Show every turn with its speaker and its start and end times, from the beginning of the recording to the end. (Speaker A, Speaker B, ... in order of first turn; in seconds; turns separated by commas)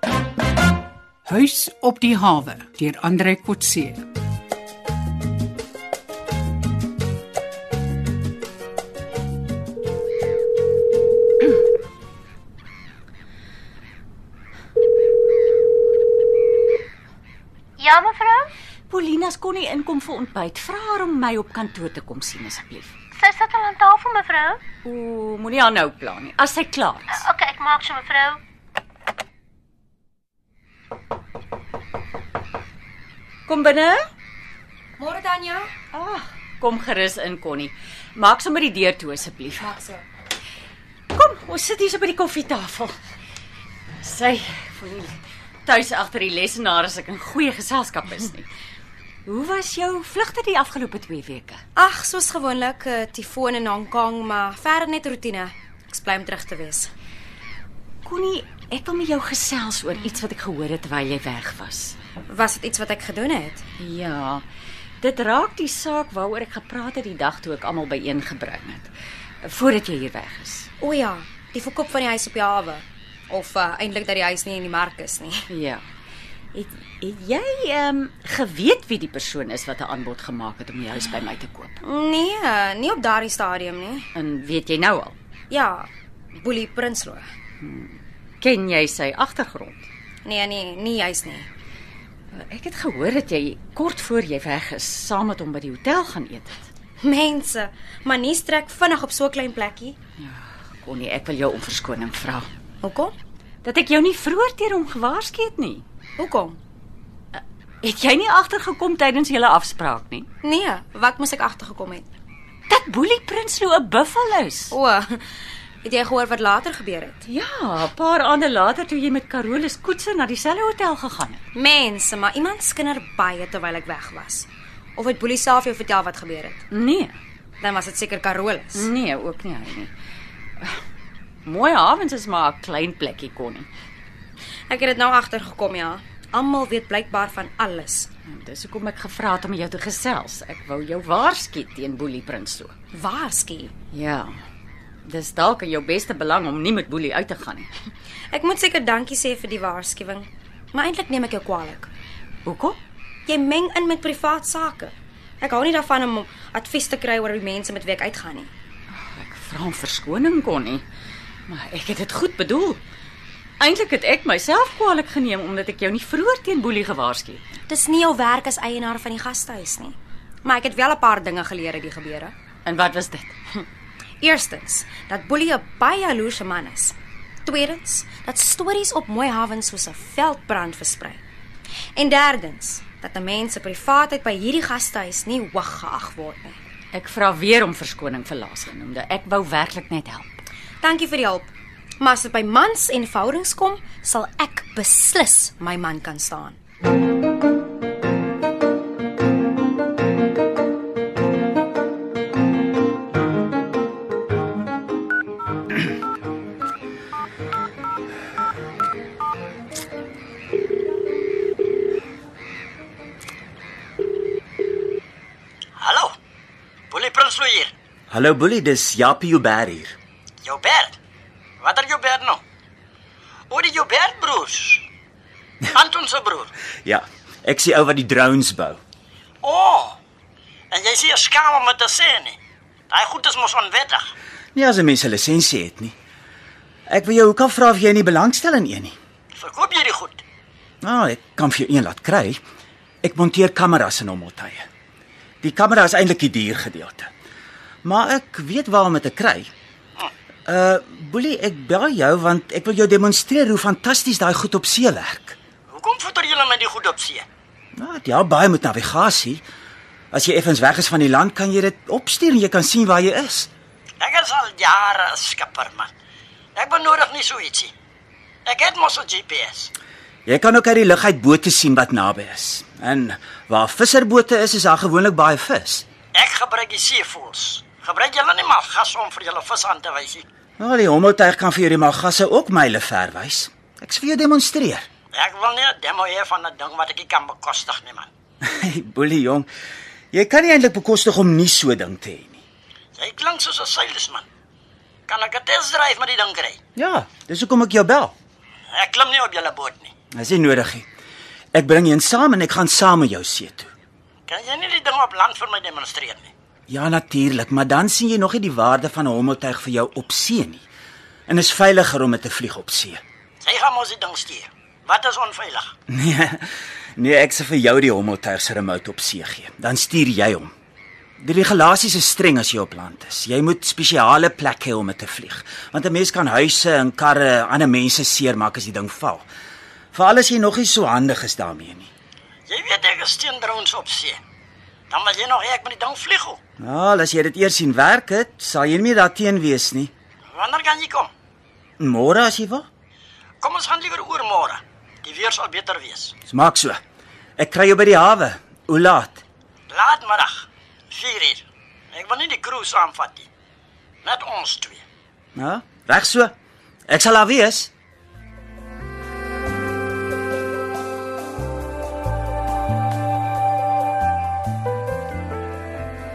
Speaker A: 1.3-4.0, Speaker B: 17.8-18.5, Speaker C: 18.9-23.0, Speaker B: 23.2-24.6, Speaker C: 24.8-27.2, Speaker B: 27.2-28.4, Speaker C: 33.5-34.0, Speaker D: 35.0-35.7, Speaker C: 35.9-39.7, Speaker D: 39.6-40.0, Speaker C: 41.1-43.0, Speaker C: 44.0-48.5, Speaker C: 49.3-51.6, Speaker D: 51.8-56.9, Speaker C: 58.0-62.0, Speaker D: 62.3-63.6, Speaker C: 63.8-64.5, Speaker C: 65.0-68.9, Speaker C: 69.4-70.7, Speaker D: 70.8-75.5, Speaker C: 75.5-75.8, Speaker C: 76.5-81.8, Speaker D: 81.8-84.1, Speaker C: 84.2-85.2, Speaker D: 85.5-87.3, Speaker C: 87.6-89.9, Speaker D: 90.2-91.5, Speaker C: 92.3-96.7, Speaker D: 97.0-100.0, Speaker C: 100.2-102.5, Speaker D: 102.8-103.1, Speaker C: 103.6-105.8, Speaker D: 106.2-106.6, Speaker C: 107.3-110.3, Speaker D: 110.4-112.1, Speaker C: 112.7-114.7, Speaker D: 114.7-115.2, Speaker D: 115.8-117.2, Speaker C: 117.2-121.4, Speaker D: 121.5-126.6, Speaker C: 126.7-127.2, Speaker D: 127.6-128.9, Speaker C: 128.7-129.9, Speaker C: 131.5-133.7, Speaker D: 134.7-138.1, Speaker C: 138.3-142.7, Speaker D: 142.9-143.7, Speaker C: 143.9-144.3, Speaker C: 145.1-147.7, Speaker D: 148.3-151.9, Speaker C: 152.5-152.8, Speaker D: 153.3-158.5, Speaker C: 158.9-160.8, Speaker C: 161.5-162.8, Speaker C: 163.6-167.5, Speaker D: 167.7-172.3, Speaker C: 172.7-173.3, Speaker D: 174.2-181.2, Speaker D: 182.0-186.6, Speaker C: 186.9-190.4, Speaker D: 190.8-196.6, Speaker E: 215.8-216.2, Speaker E: 216.9-217.7, Speaker F: 218.1-220.0, Speaker E: 220.4-220.9, Speaker E: 221.6-222.4, Speaker E: 223.5-224.8, Speaker E: 225.7-226.5, Speaker F: 226.8-228.8, Speaker E: 229.4-230.0, Speaker E: 230.7-232.4, Speaker E: 232.9-234.1, Speaker F: 234.6-235.9, Speaker F: 236.9-239.0, Speaker E: 239.4-240.2, Speaker F: 240.8-242.4, Speaker F: 243.0-244.7, Speaker F: 245.4-247.1, Speaker F: 247.8-249.5, Speaker F: 250.5-255.4, Speaker E: 255.7-257.2, Speaker F: 257.8-259.4, Speaker F: 260.1-263.5, Speaker E: 264.0-265.9, Speaker E: 266.6-267.7, Speaker E: 268.5-269.7, Speaker F: 270.3-275.9, Speaker E: 276.1-280.2, Speaker F: 280.6-284.9, Speaker E: 285.1-288.1, Speaker F: 288.4-289.5, Speaker F: 290.1-292.4, Speaker E: 293.0-294.2, Speaker E: 295.1-296.6, Speaker F: 296.8-298.1, Speaker E: 298.7-299.9, Speaker F: 300.1-300.9, Speaker F: 301.5-303.7, Speaker E: 304.3-306.3, Speaker F: 306.7-310.7, Speaker F: 311.3-313.0, Speaker E: 313.4-315.7, Speaker F: 315.9-320.5, Speaker F: 321.2-329.3, Speaker F: 329.9-331.9, Speaker E: 332.5-334.2, Speaker E: 334.9-336.4, Speaker F: 336.6-339.9, Speaker E: 340.3-341.1, Speaker F: 341.8-342.7, Speaker E: 343.4-346.1, Speaker F: 346.3-346.8, Speaker F: 347.4-349.2, Speaker E: 349.7-351.4, Speaker E: 351.9-353.3, Speaker E: 354.1-354.8, Speaker F: 355.4-356.3, Speaker F: 356.9-357.7